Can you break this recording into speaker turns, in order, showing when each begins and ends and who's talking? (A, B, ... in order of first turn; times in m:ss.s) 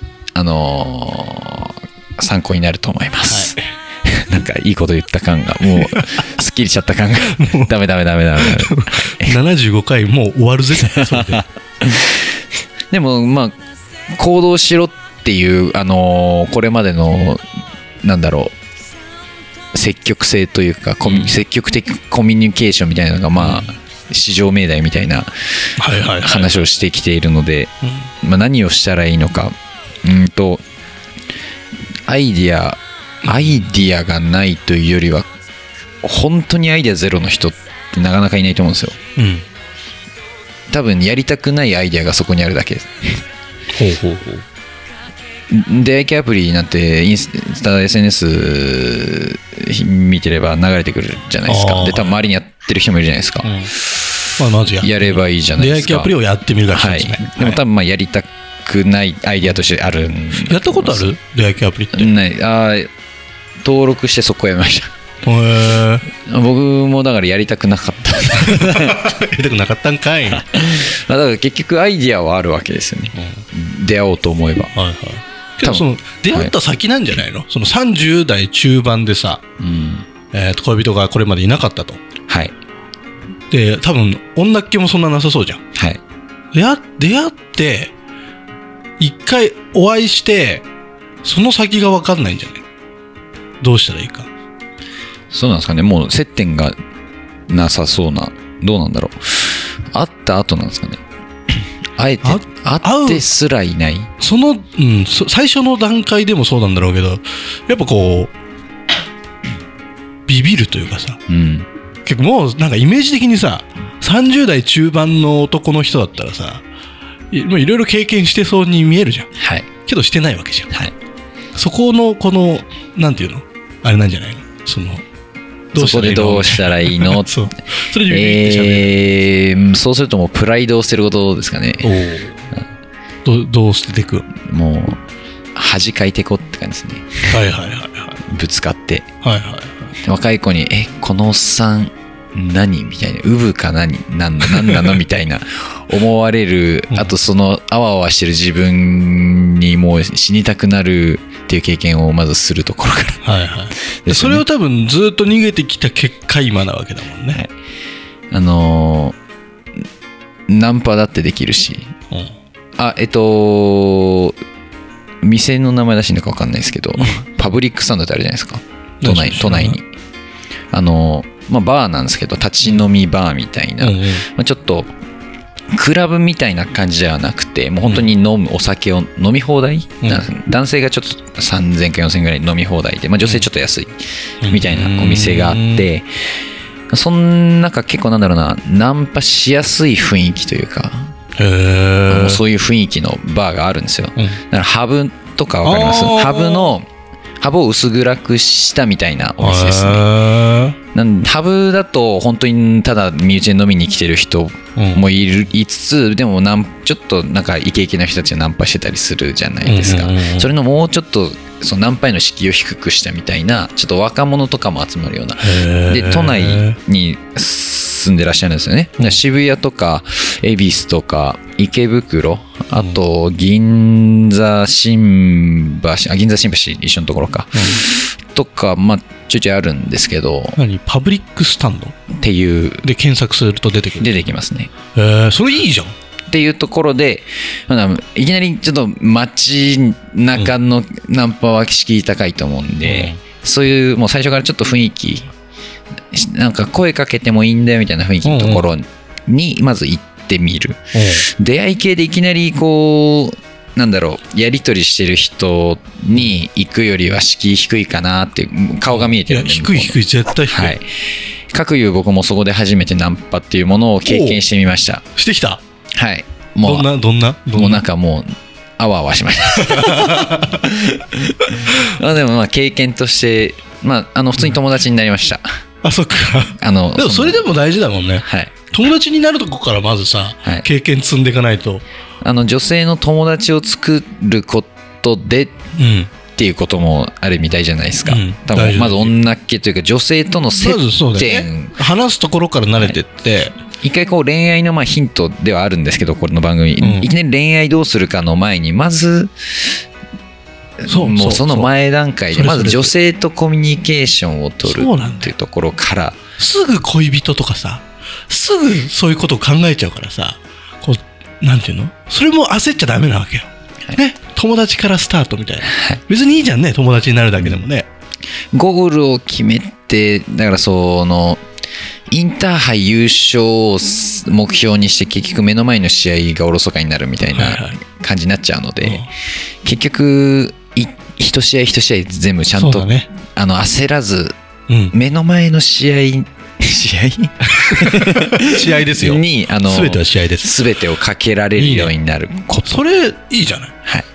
0:00.3-0:09.4 A
0:03.3-0:03.6 B
0:05.8-0:06.2 B
0:07.3-0:07.7 B
0:08.4-0:11.4 B
0:10.8-0:12.2 A
0:12.9-0:13.6 A
0:14.2-0:17.4 A
0:18.0-0:18.5 A
0:19.7-0:25.3 A
0:21.0-0:21.4 B
0:23.4-0:23.7 B
0:25.8-0:26.5 B
0:26.2-0:30.6 A
0:27.8-0:28.1 B
0:32.1-0:35.2 A
0:36.0-0:39.0 A
0:39.2-0:39.4 B
0:40.7-0:43.2 A
0:43.7-0:44.4 B
0:45.5-0:54.0 A
0:51.4-0:52.2 B
0:53.4-0:53.7 B
0:54.4-0:57.6 B
0:54.8-0:56.1 A
0:56.7-1:01.1 A
1:00.4-1:02.1 B
1:01.9-1:02.9 A
1:03.6-1:04.9 A
1:05.2-1:06.0 B
1:06.2-1:09.0 A
1:08.5-1:10.4 B
1:10.3-1:14.7 A
1:13.2-1:13.4 B
1:14.7-1:19.4 B
1:15.6-1:16.5 A
1:19.6-1:20.0 A
1:20.3-1:22.0 B
1:22.3-1:22.5 A
1:23.5-1:25.6 B
1:26.5-1:27.9 B
1:29.0-1:30.6 B
1:31.2-1:32.6 B
1:33.6-1:34.3 B
1:35.3-1:36.8 A
1:37.5-1:41.0 A
1:42.0-1:44.1 A
1:42.2-1:43.2 B
1:44.2-1:48.3 B
1:50.3-1:51.2 B
1:51.3-1:51.7 A
1:52.0-1:56.6 B
1:57.3-1:59.3 B
1:59.4-1:59.7 A
1:59.8-2:00.7 B
2:01.5-2:05.0 B
2:05.7-2:09.0 B
2:05.7-2:07.3 A
2:08.1-2:11.9 A
2:11.8-2:12.5 B
2:13.2-2:14.3 B
2:14.4-2:15.0 A
2:15.5-2:17.3 A
2:17.3-2:18.2 B
2:18.3-2:19.1 A
2:19.2-2:19.9 B
2:20.0-2:33.2 A
2:24.4-2:25.0 B
2:33.2-2:37.4 B
2:34.0-2:34.4 A
2:38.3-2:39.2 A
2:40.5-2:41.9 A
2:42.8-2:44.4 A
2:45.2-2:49.8 A
2:47.0-2:47.2 B
2:49.0-2:49.8 B
2:50.7-2:54.9 A
2:53.8-2:54.2 B
2:55.7-3:04.0 A
2:57.8-2:58.1 B
3:04.4-3:05.9 B
3:04.5-3:06.1 A
3:06.9-3:11.1 A
3:11.4-3:12.4 B
3:12.1-3:16.9 A
3:15.6-3:16.7 B
3:17.4-3:20.0 A
3:19.4-3:20.8 B
3:20.9-3:50.6 A
3:24.8-3:25.0 B
3:29.6-3:30.5 B
3:35.4-3:36.8 B
3:42.7-3:43.0 B
3:47.5-3:47.8 B
3:50.6-3:51.9 B
3:52.1-3:52.8 A
3:52.8-3:54.3 B
3:54.0-3:54.7 A
3:54.9-3:55.9 B
3:56.3-4:05.3 A
4:02.8-4:03.2 B
4:06.1-4:20.9 A
4:08.2-4:08.7 B
4:10.9-4:11.3 B
4:18.9-4:20.8 B
4:21.5-4:25.0 A
4:24.0-4:24.4 B
4:25.2-4:25.6 B
4:25.9-4:26.9 A
4:26.6-4:27.8 B
4:27.6-4:35.4 A
4:29.6-4:30.6 B
4:35.8-4:41.8 B
4:36.6-4:37.4 A
4:38.2-4:38.5 A
4:42.2-4:45.6 A
4:45.8-4:46.1 B
4:46.3-4:51.8 A
4:48.0-4:49.2 B
4:50.6-4:53.6 B
4:53.8-4:59.7 A
4:56.8-4:57.1 B
5:00.8-5:06.3 A
5:00.8-5:01.7 B
5:02.3-5:02.9 B
5:04.6-5:05.3 B
5:06.4-5:17.9 B
5:15.6-5:16.0 A
5:18.5-5:21.4 A
5:22.1-5:29.1 A
5:27.3-5:27.8 B
5:28.8-5:29.1 B
5:29.6-5:34.3 A
5:32.6-5:33.1 B
5:34.7-5:34.9 B
5:34.9-5:42.8 A
5:37.5-5:40.6 B
5:41.6-5:41.9 B
5:42.6-5:43.7 B